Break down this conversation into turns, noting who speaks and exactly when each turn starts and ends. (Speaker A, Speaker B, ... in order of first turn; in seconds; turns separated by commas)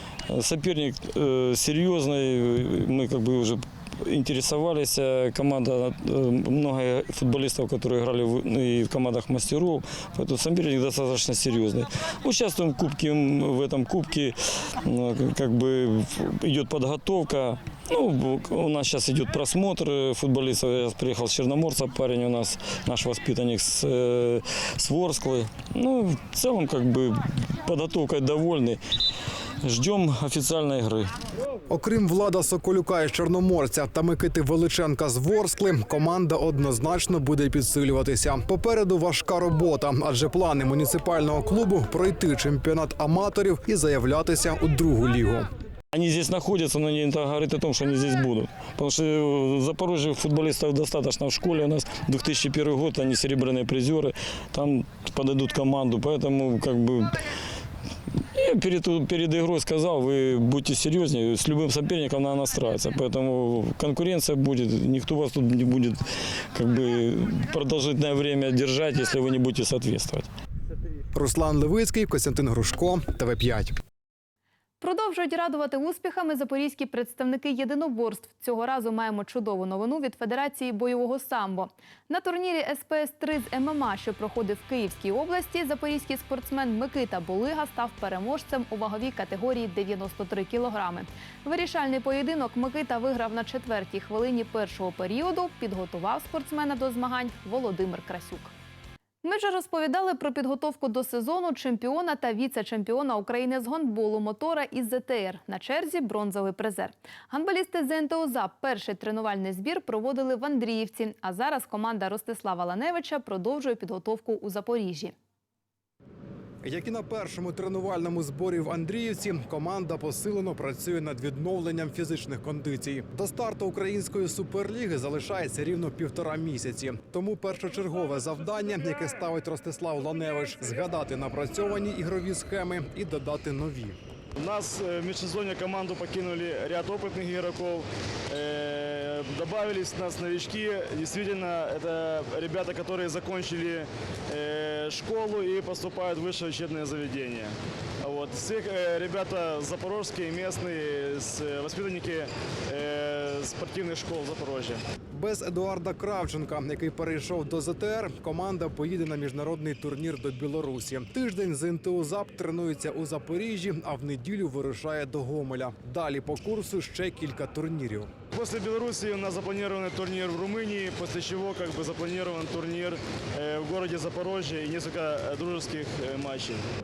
Speaker A: 0.3-28.8, Speaker A: 29.6-31.1, Speaker B: 31.7-45.5, Speaker A: 45.9-57.3, Speaker A: 58.3-70.3, Speaker B: 71.1-73.7, Speaker C: 74.8-98.5, Speaker C: 99.2-115.1, Speaker B: 116.6-134.0, Speaker D: 134.4-147.5, Speaker D: 148.0-154.8, Speaker B: 155.1-168.1, Speaker D: 168.3-176.6